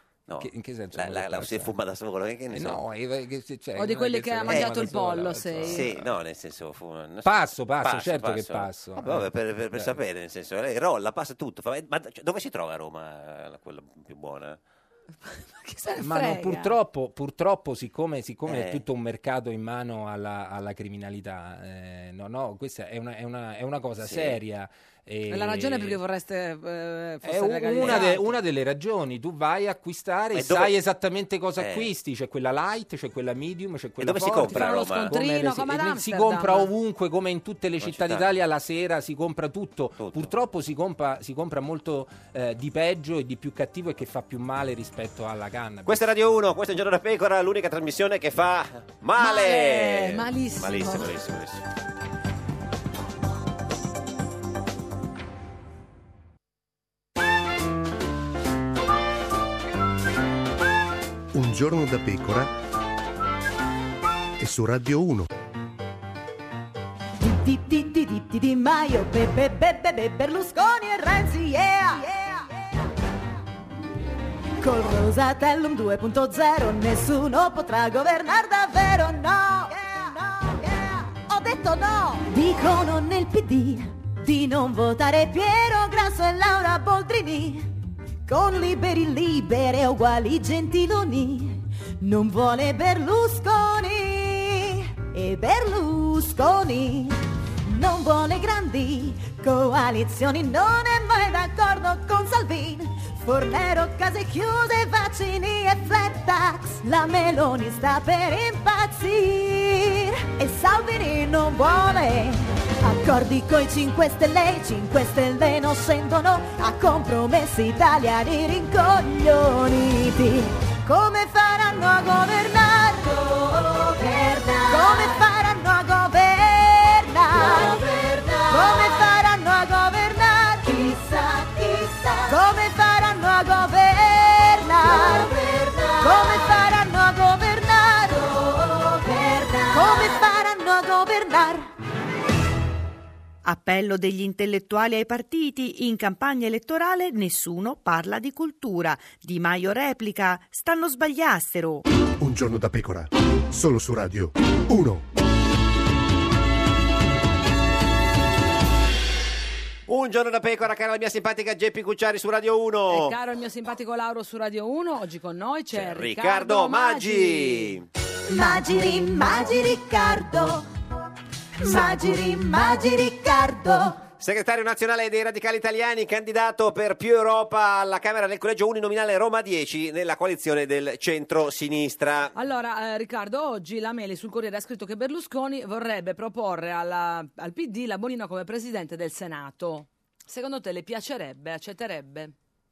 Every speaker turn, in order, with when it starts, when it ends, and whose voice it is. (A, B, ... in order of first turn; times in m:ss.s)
0:00.3-0:02.8 A
0:00.4-0:01.8 B
0:02.5-0:06.1 B
0:03.8-0:05.9 C
0:04.5-0:04.8 A
0:05.6-0:14.6 A
0:07.2-0:10.0 B
0:15.6-0:16.8 C
0:16.0-0:26.0 B
0:18.5-0:18.8 A
0:24.0-0:24.4 A
0:25.3-0:28.4 C
0:27.2-0:46.1 B
0:27.8-0:28.1 A
0:30.3-0:30.8 A
0:31.6-0:31.9 A
0:34.0-0:35.2 A
0:34.4-0:36.7 C
0:37.8-0:38.3 A
0:40.0-0:40.3 A
0:45.9-0:51.7 A
0:49.2-0:51.1 C
1:01.3-1:02.5 D
1:04.4-1:05.3 D
1:07.2-1:12.7 E
1:14.6-1:27.7 E
1:28.3-2:21.7 E
2:23.4-2:31.8 F
2:32.2-2:35.0 D
2:39.9-2:43.2 A
2:42.9-2:47.8 C
2:45.7-2:47.9 A
2:48.3-2:50.7 E
2:51.6-2:54.0 E
2:54.2-3:02.3 A
3:02.4-3:12.3 C